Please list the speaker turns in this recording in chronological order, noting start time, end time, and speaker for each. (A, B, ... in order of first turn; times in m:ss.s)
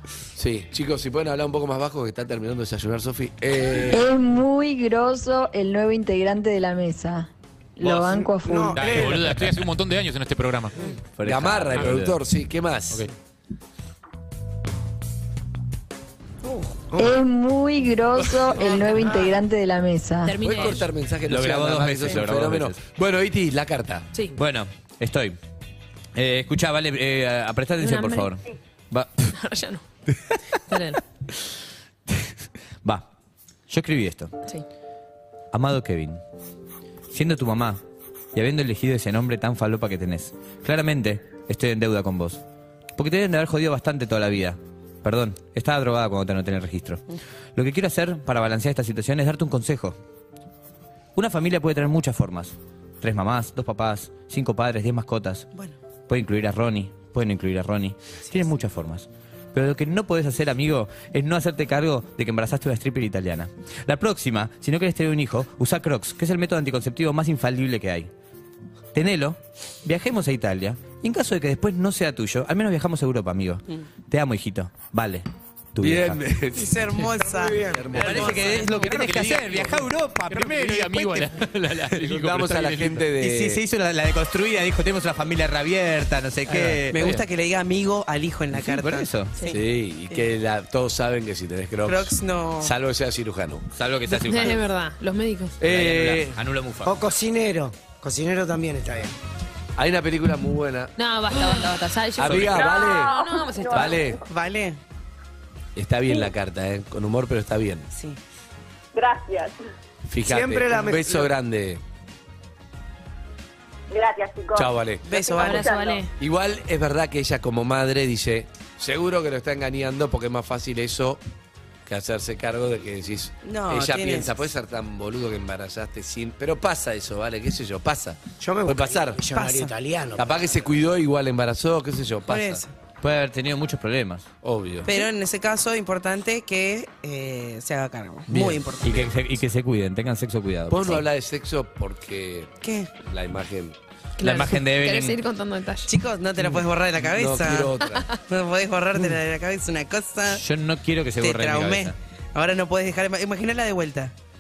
0:00.4-0:04.0 A
0:03.9-0:09.2 B
0:07.8-0:10.8 C
0:07.9-0:09.4 D
0:11.2-0:12.2 E
0:11.2-0:13.1 A
0:16.4-0:17.2 D
0:17.0-0:20.4 B
0:20.2-0:20.9 F
0:20.4-0:24.1 A
0:21.3-0:22.8 E
0:24.3-0:25.4 E
0:26.2-0:29.4 E
0:27.8-0:28.4 F
0:29.3-0:29.8 F
0:30.7-0:31.0 F
0:33.7-0:34.3 E
0:35.5-0:36.2 E
0:37.1-0:37.8 E
0:38.3-0:42.4 E
0:43.0-0:47.0 E
0:47.6-0:50.0 E
0:51.2-0:55.5 E
0:56.1-1:08.1 E
1:08.9-1:16.2 E
1:15.8-1:18.5 A
1:16.5-1:19.0 G
1:17.9-1:21.8 E
1:18.6-1:23.1 C
1:22.0-1:23.6 A
1:23.2-1:27.1 E
1:26.5-1:27.2 C
1:26.9-1:29.6 G
1:28.5-1:29.4 E
1:29.5-1:33.7 A
1:31.8-1:32.8 G
1:33.8-1:34.6 E
1:34.1-1:35.5 F
1:35.6-1:36.4 A
1:35.6-1:36.9 E
1:36.8-1:39.2 D
1:39.8-1:40.9 A
1:41.0-1:44.0 F
1:42.2-1:43.1 A
1:42.2-1:42.5 E
1:42.4-1:44.2 H
1:43.7-1:44.2 A
1:44.2-1:44.8 G
1:45.8-1:47.9 A
1:47.9-1:48.2 G
1:48.9-1:49.6 H
1:50.1-1:51.8 A
1:50.2-1:51.3 D
1:53.9-1:56.1 H
1:54.6-1:55.1 A
1:55.1-1:55.8 G
1:55.4-1:56.1 F
1:56.2-2:01.2 A
2:01.9-2:09.2 A
2:03.4-2:04.4 G
2:08.4-2:10.7 D
2:09.3-2:09.7 G
2:10.2-2:12.6 A
2:12.3-2:12.7 G
2:13.0-2:14.3 E
2:14.4-2:14.9 A
2:14.8-2:19.1 G
2:18.3-2:21.1 E
2:20.7-2:23.8 A
2:22.6-2:23.0 G
2:24.2-2:25.9 F
2:24.2-2:25.2 E
2:25.9-2:30.4 G
2:27.0-2:28.2 A
2:30.3-2:32.0 E
2:31.2-2:34.1 G